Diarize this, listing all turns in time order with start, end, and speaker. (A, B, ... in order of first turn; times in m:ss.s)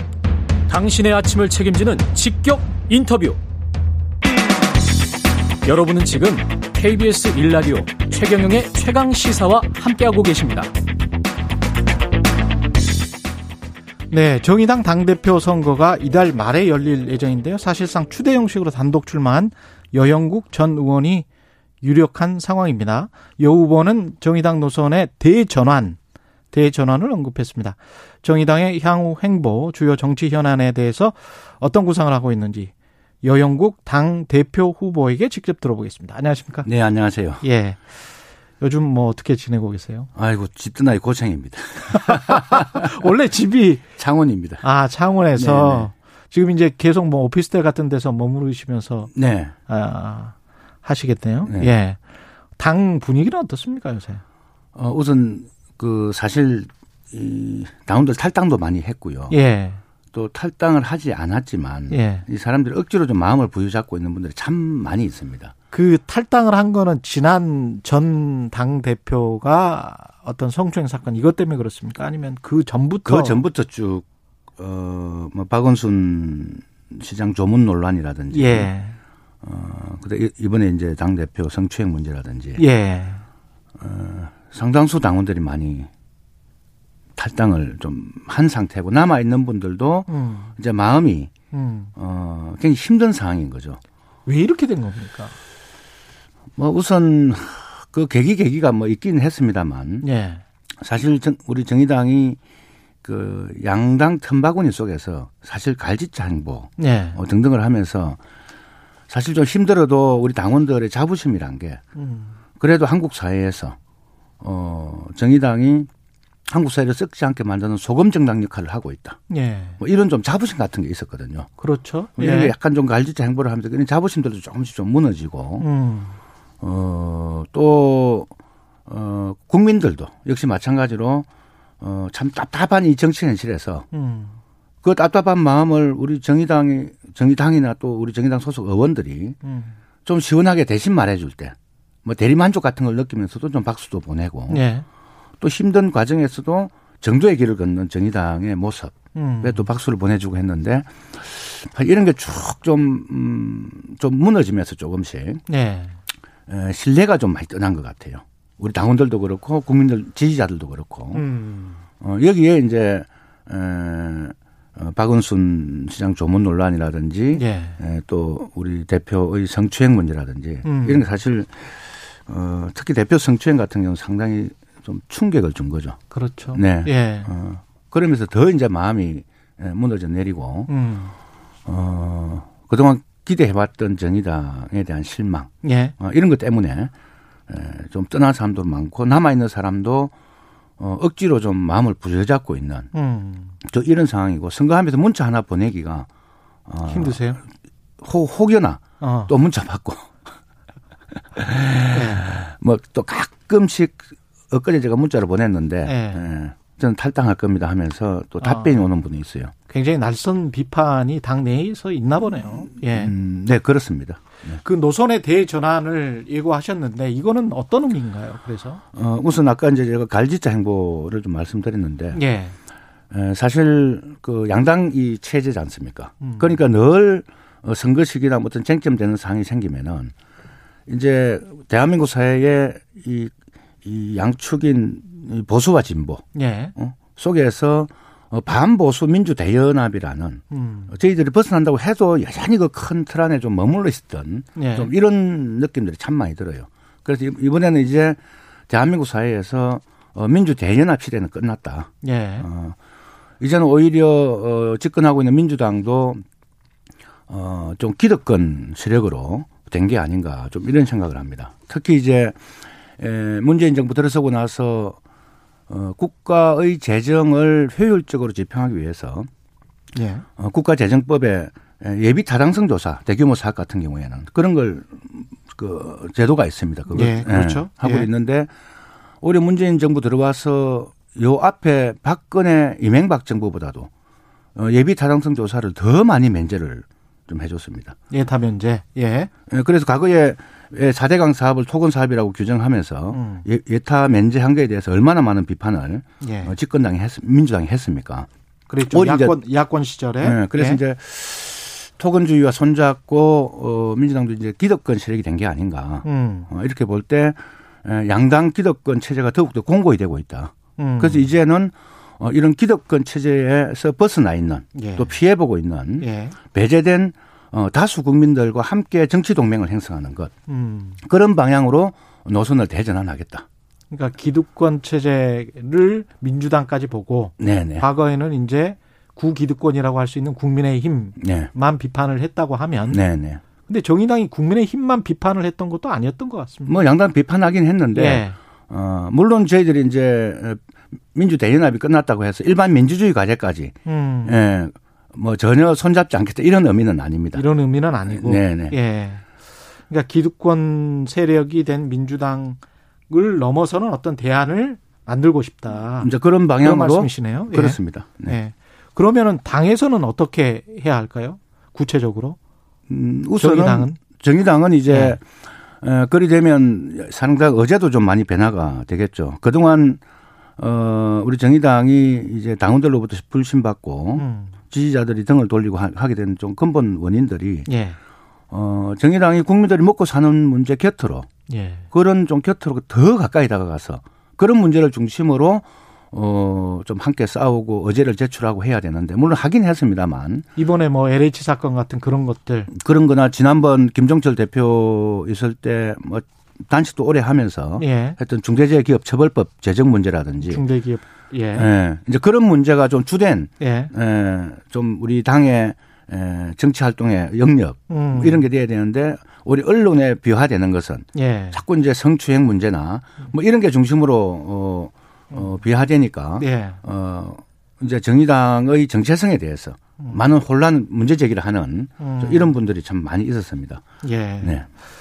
0:00.7-0:03.4 A
0:05.6-0:10.7 A
0:14.1-0:21.2 B
0:21.8-0:26.0 B
0:26.5-0:36.7 B
0:36.6-0:37.4 C
0:37.4-0:38.0 B
0:38.6-0:40.1 B
0:40.2-0:42.9 C
0:41.9-0:43.8 B
0:44.0-0:44.6 C
0:44.6-0:49.1 B
0:45.4-0:45.9 C
0:49.1-0:49.5 C
0:49.7-0:52.0 B
0:52.6-0:54.2 B
0:54.8-0:59.4 C
0:59.3-0:59.8 B
1:00.1-1:05.5 C
1:01.9-1:02.2 B
1:05.7-1:13.4 B
1:13.0-1:14.0 C
1:14.6-1:18.7 C
1:18.3-1:19.0 B
1:19.4-1:22.6 C
1:22.6-1:23.2 B
1:23.8-1:25.9 C
1:27.2-1:31.3 C
1:30.1-1:30.5 B
1:31.5-1:31.9 B
1:32.0-1:33.8 C
1:34.2-1:35.3 B
1:36.6-1:40.1 C
1:40.0-1:40.4 B
1:40.8-1:42.4 C
1:43.0-1:48.2 C
1:46.8-1:47.2 B
1:49.1-1:51.8 C
1:52.0-1:52.4 B
1:52.6-1:53.8 C
1:54.4-1:55.9 C
1:56.5-1:59.2 C
1:59.3-1:59.8 B
1:59.8-2:01.5 C
2:01.6-2:02.5 B
2:02.2-2:05.7 C
2:05.6-2:06.2 B
2:06.6-2:08.3 C
2:08.9-2:11.2 C
2:11.8-2:13.8 C
2:13.9-2:14.4 B
2:14.8-2:19.4 C
2:19.4-2:19.8 B
2:20.1-2:24.6 C
2:24.5-2:24.8 B
2:25.4-2:35.4 C
2:29.1-2:29.7 B
2:35.5-2:36.0 B
2:36.5-2:41.2 C
2:41.1-2:41.8 B
2:42.0-2:56.0 C
2:47.3-2:47.8 B
2:50.6-2:51.1 B
2:56.1-2:57.3 B
2:56.5-3:00.7 C
3:00.7-3:01.1 B
3:01.7-3:06.9 C
3:05.6-3:05.9 B
3:07.5-3:10.1 C
3:10.8-3:12.9 C
3:12.9-3:13.5 B
3:13.6-3:16.1 C
3:16.7-3:17.3 C
3:16.9-3:17.4 B
3:18.0-3:20.1 C
3:19.0-3:19.3 B
3:21.3-3:29.5 C
3:21.9-3:22.3 B
3:25.8-3:26.3 B
3:28.4-3:28.8 B
3:29.7-3:33.1 B
3:32.7-3:34.6 C
3:34.6-3:38.8 B
3:38.9-3:42.2 C
3:42.1-3:42.5 B
3:43.1-3:50.1 C
3:46.2-3:46.5 B
3:50.9-3:53.3 C
3:53.8-3:56.2 C
3:56.3-3:56.7 B
3:56.8-4:08.2 C
4:00.5-4:00.9 B
4:04.6-4:04.9 B
4:08.7-4:12.8 C
4:12.0-4:12.5 B
4:13.4-4:16.2 C
4:17.3-4:22.4 C
4:23.0-4:25.0 C
4:25.7-4:29.3 C
4:29.9-4:30.2 B
4:30.4-4:38.5 C
4:36.9-4:38.1 B
4:39.2-4:43.9 C
4:44.6-4:48.0 C
4:48.1-4:49.3 B
4:49.5-4:58.3 C
4:53.1-4:53.4 B
4:56.2-4:56.6 B
4:58.7-5:00.8 B
4:58.8-4:59.4 C
5:00.2-5:20.3 C
5:06.0-5:06.5 B
5:10.8-5:11.3 B
5:14.8-5:15.2 B
5:16.0-5:16.4 B
5:20.5-5:21.0 B
5:21.0-5:23.4 C
5:23.9-5:33.0 B
5:27.4-5:27.9 C
5:31.2-5:31.5 C
5:32.9-5:33.4 C
5:33.6-5:36.8 B
5:36.7-5:40.6 C
5:37.9-5:38.4 B
5:41.1-5:47.4 C
5:43.8-5:44.4 B
5:47.3-5:49.2 B
5:48.1-5:48.8 C
5:49.9-6:02.4 B
5:56.0-5:58.4 C
6:02.9-6:05.2 C
6:03.4-6:04.0 B
6:04.9-6:05.2 B
6:05.8-6:10.0 C
6:10.6-6:17.7 C
6:14.2-6:14.6 B
6:17.7-6:18.0 B
6:18.5-6:21.3 C
6:21.5-6:21.8 B
6:21.9-6:30.5 C
6:30.6-6:32.7 B
6:32.7-6:40.6 C
6:37.8-6:38.2 B
6:40.4-6:41.7 B
6:41.6-7:03.8 C
6:43.6-6:43.9 B
6:47.9-6:48.4 B
6:51.1-6:51.6 B
6:56.4-6:56.8 B
7:02.0-7:02.6 B
7:04.0-7:04.6 B